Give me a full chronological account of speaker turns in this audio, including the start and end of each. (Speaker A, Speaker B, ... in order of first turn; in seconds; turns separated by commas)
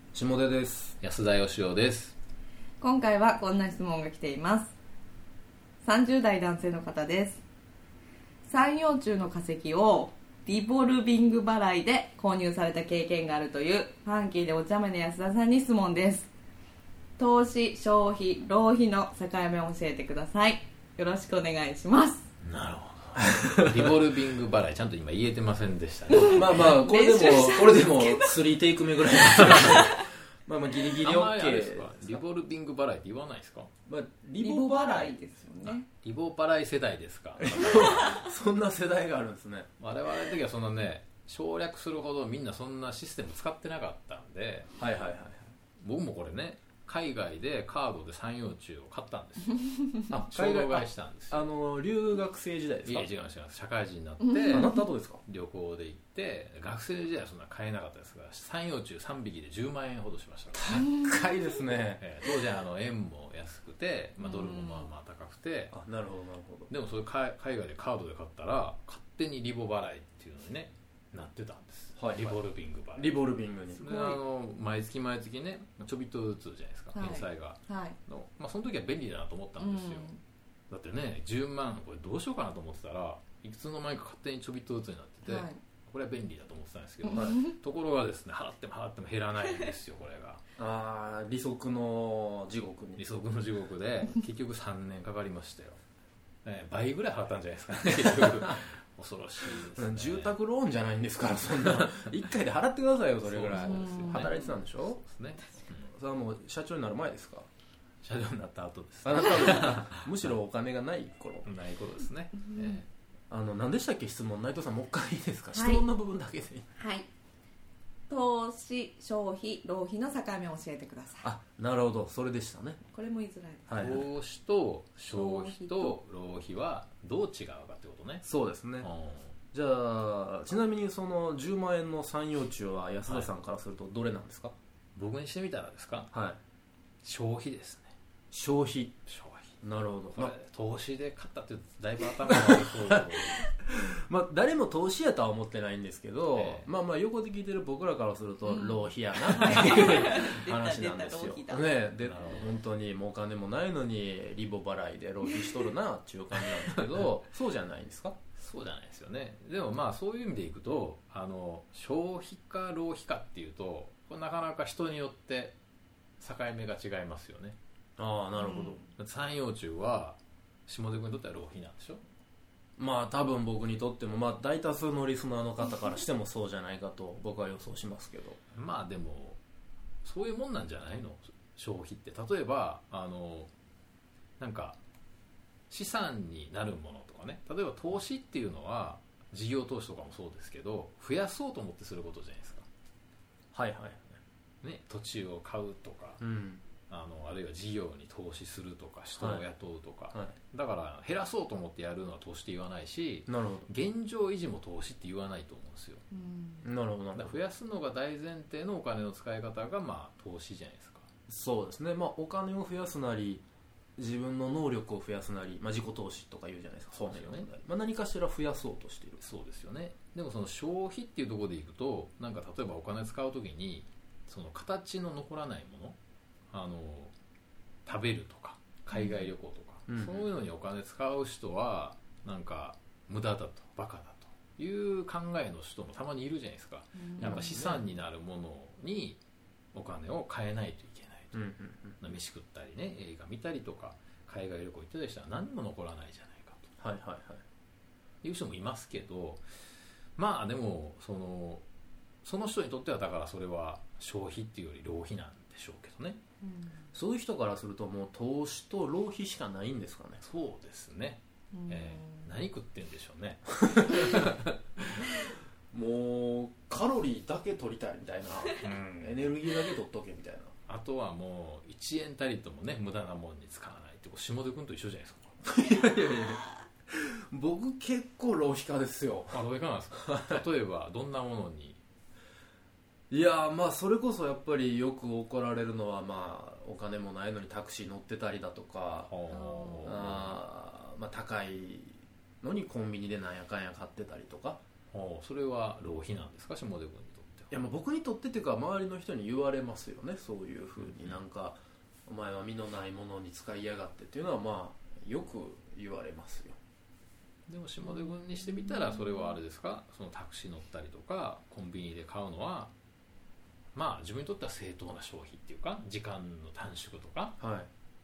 Speaker A: 0.1-0.9, Speaker B: 1.0-2.2, Speaker C: 2.8-4.8, Speaker C: 5.8-7.4, Speaker C: 8.4-16.3, Speaker C: 17.2-22.3, Speaker B: 22.4-26.8, Speaker A: 23.3-23.9, Speaker C: 26.1-28.5, Speaker A: 26.2-32.2, Speaker C: 29.5-30.1, Speaker B: 31.0-33.7, Speaker A: 33.9-35.3, Speaker C: 34.4-35.9, Speaker B: 35.6-38.2, Speaker A: 37.4-39.7, Speaker B: 39.8-44.8, Speaker A: 44.8-45.5, Speaker B: 45.8-51.5, Speaker A: 50.1-53.1, Speaker B: 52.9-60.8, Speaker C: 54.2-54.8, Speaker A: 54.5-55.2, Speaker A: 60.5-62.0, Speaker C: 60.9-61.3, Speaker B: 62.0-65.8, Speaker C: 64.2-64.9, Speaker A: 65.7-66.7, Speaker B: 66.7-80.1, Speaker A: 72.0-72.4, Speaker A: 73.0-74.2, Speaker C: 76.9-78.0, Speaker C: 79.6-80.2, Speaker B: 80.7-90.4, Speaker C: 85.3-85.6, Speaker C: 87.1-87.5, Speaker A: 87.1-87.4, Speaker A: 90.6-93.0, Speaker B: 93.0-95.8, Speaker B: 96.5-100.4, Speaker A: 98.2-98.6, Speaker A: 99.7-105.0, Speaker B: 103.2-105.9, Speaker C: 103.6-104.5, Speaker A: 105.8-107.5, Speaker B: 108.0-110.3, Speaker A: 109.0-111.5, Speaker B: 111.5-112.9, Speaker C: 112.5-112.8, Speaker A: 113.3-116.7, Speaker C: 115.5-115.9, Speaker C: 116.8-117.1, Speaker C: 118.1-121.3, Speaker A: 121.2-122.8, Speaker C: 122.9-123.7, Speaker A: 123.7-124.1, Speaker B: 123.7-128.3, Speaker C: 125.1-126.0, Speaker A: 128.2-128.9, Speaker B: 128.8-129.4, Speaker A: 129.5-134.6, Speaker B: 133.1-133.3, Speaker B: 135.0-136.1, Speaker A: 136.1-136.4, Speaker B: 137.0-137.9, Speaker A: 138.3-139.0, Speaker B: 139.1-139.6, Speaker A: 139.6-140.3, Speaker B: 140.1-143.5, Speaker A: 142.3-158.2, Speaker B: 146.3-146.7, Speaker C: 148.4-151.7, Speaker B: 152.0-152.6, Speaker B: 158.4-165.6, Speaker B: 166.2-167.6, Speaker A: 168.0-168.8, Speaker C: 168.4-168.9, Speaker B: 169.0-172.0, Speaker A: 172.8-178.4, Speaker B: 178.6-179.4, Speaker B: 180.0-183.5, Speaker B: 184.4-184.8, Speaker B: 185.7-192.7, Speaker A: 193.5-194.2, Speaker B: 194.6-196.2, Speaker A: 196.2-196.6, Speaker B: 196.9-206.0, Speaker A: 199.2-199.4, Speaker A: 203.3-203.7, Speaker C: 206.1-206.7, Speaker A: 206.6-207.4, Speaker B: 207.2-211.1, Speaker A: 211.3-213.4, Speaker A: 214.0-219.2, Speaker B: 216.9-217.5, Speaker B: 219.2-226.0, Speaker B: 226.5-227.1, Speaker B: 227.9-239.2, Speaker C: 228.9-229.3, Speaker A: 229.9-230.3, Speaker C: 237.0-237.6, Speaker A: 237.2-237.8, Speaker B: 239.7-241.5, Speaker A: 241.3-242.0, Speaker B: 242.0-246.7, Speaker A: 246.8-247.4, Speaker B: 248.2-249.4, Speaker B: 250.2-251.7, Speaker B: 252.2-256.2, Speaker C: 256.4-256.9, Speaker A: 256.9-260.2, Speaker B: 260.2-264.5, Speaker C: 261.5-262.3, Speaker A: 265.7-270.5, Speaker B: 268.6-269.4, Speaker B: 270.7-275.4, Speaker A: 275.4-280.4, Speaker B: 279.3-281.8, Speaker A: 283.1-289.1, Speaker B: 289.1-290.4, Speaker C: 289.3-290.0, Speaker A: 289.8-294.6, Speaker B: 294.9-297.5, Speaker A: 297.5-306.6, Speaker B: 300.8-301.2, Speaker B: 307.5-312.7, Speaker C: 308.7-309.2, Speaker B: 313.8-317.4, Speaker A: 317.4-317.7